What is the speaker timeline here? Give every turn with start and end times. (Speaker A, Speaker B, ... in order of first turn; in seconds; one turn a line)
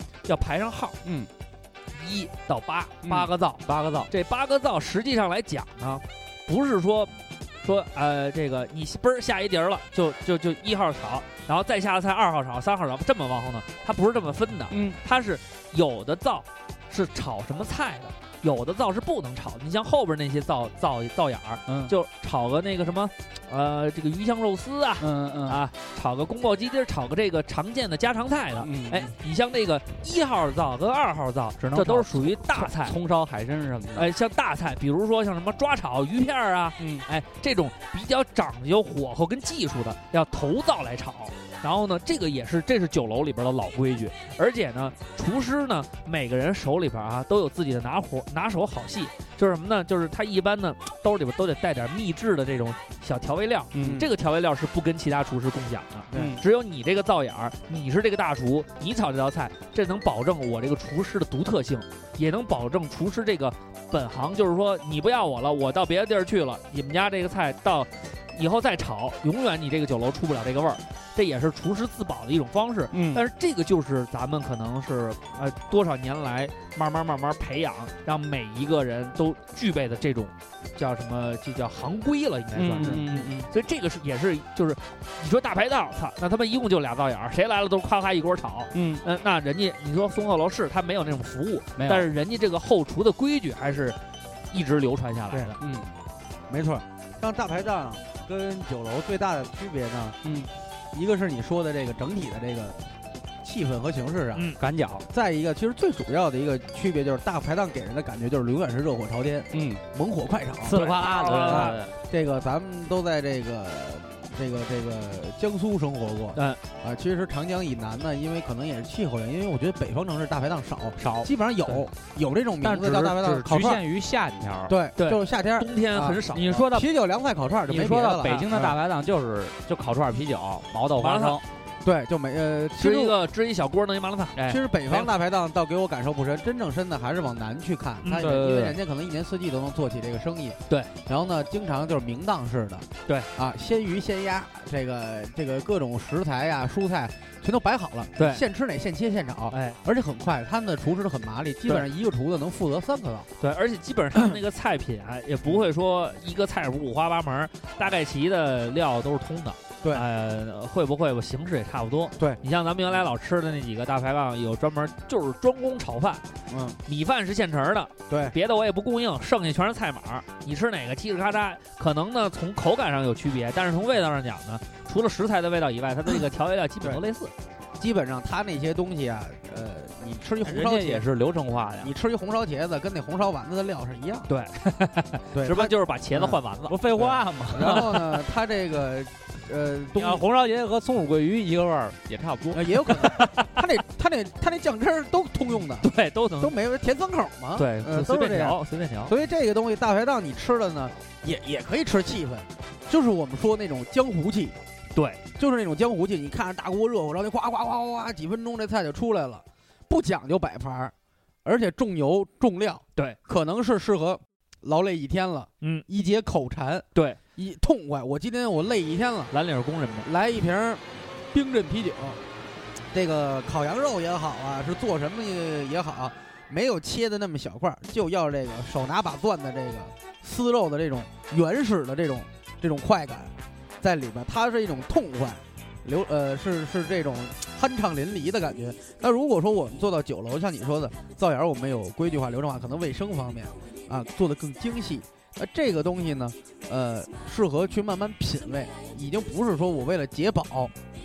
Speaker A: 0.2-1.0
Speaker B: 1.0-1.3
Speaker A: 1.9-32.9
Speaker B: 3.0-4.1
Speaker B: 14.7-15.0
Speaker B: 21.7-21.9
Speaker B: 25.0-25.6
Speaker B: 28.6-29.1
Speaker B: 31.6-34.1
Speaker A: 33.9-94.0
Speaker B: 36.8-37.0
Speaker B: 53.7-54.0
Speaker C: 56.1-56.4
Speaker B: 56.1-56.4
Speaker B: 72.9-73.2
Speaker B: 82.5-83.5
Speaker C: 82.8-83.1
Speaker B: 88.7-89.0
Speaker B: 91.8-92.1
Speaker A: 94.5-95.6
Speaker B: 95.6-95.9
Speaker C: 96.5-100.2
Speaker B: 100.2-100.5
Speaker C: 100.9-102.8
Speaker C: 103.4-104.5
Speaker B: 104.6-105.0
Speaker C: 105.1-123.8
Speaker B: 109.5-109.8
Speaker B: 110.6-111.9
Speaker A: 110.7-111.8
Speaker A: 116.3-116.6
Speaker B: 121.0-121.3
Speaker B: 122.6-124.8
Speaker C: 124.7-128.8
Speaker A: 125.0-126.7
Speaker B: 126.3-126.9
Speaker B: 127.7-131.4
Speaker A: 131.0-131.4
Speaker C: 131.8-133.2
Speaker A: 132.8-135.1
Speaker C: 134.4-153.3
Speaker A: 138.0-138.3
Speaker B: 138.1-138.8
Speaker A: 148.2-148.4
Speaker A: 149.5-149.8
Speaker A: 153.4-166.2
Speaker C: 166.5-166.8
Speaker A: 166.8-177.3
Speaker C: 168.1-168.3
Speaker C: 177.8-181.1
Speaker B: 180.4-181.9
Speaker C: 181.8-184.3
Speaker A: 184.3-187.9
Speaker C: 185.3-186.4
Speaker B: 186.7-188.0
Speaker C: 187.0-190.2
Speaker B: 190.0-193.2
Speaker C: 192.5-195.9
Speaker A: 192.9-193.6
Speaker A: 195.8-196.5
Speaker C: 196.4-204.6
Speaker A: 197.6-199.1
Speaker A: 204.9-205.2
Speaker C: 205.4-210.9
Speaker C: 211.4-216.8
Speaker C: 217.4-219.3
Speaker A: 219.3-220.1
Speaker C: 220.0-222.2
Speaker C: 222.9-250.7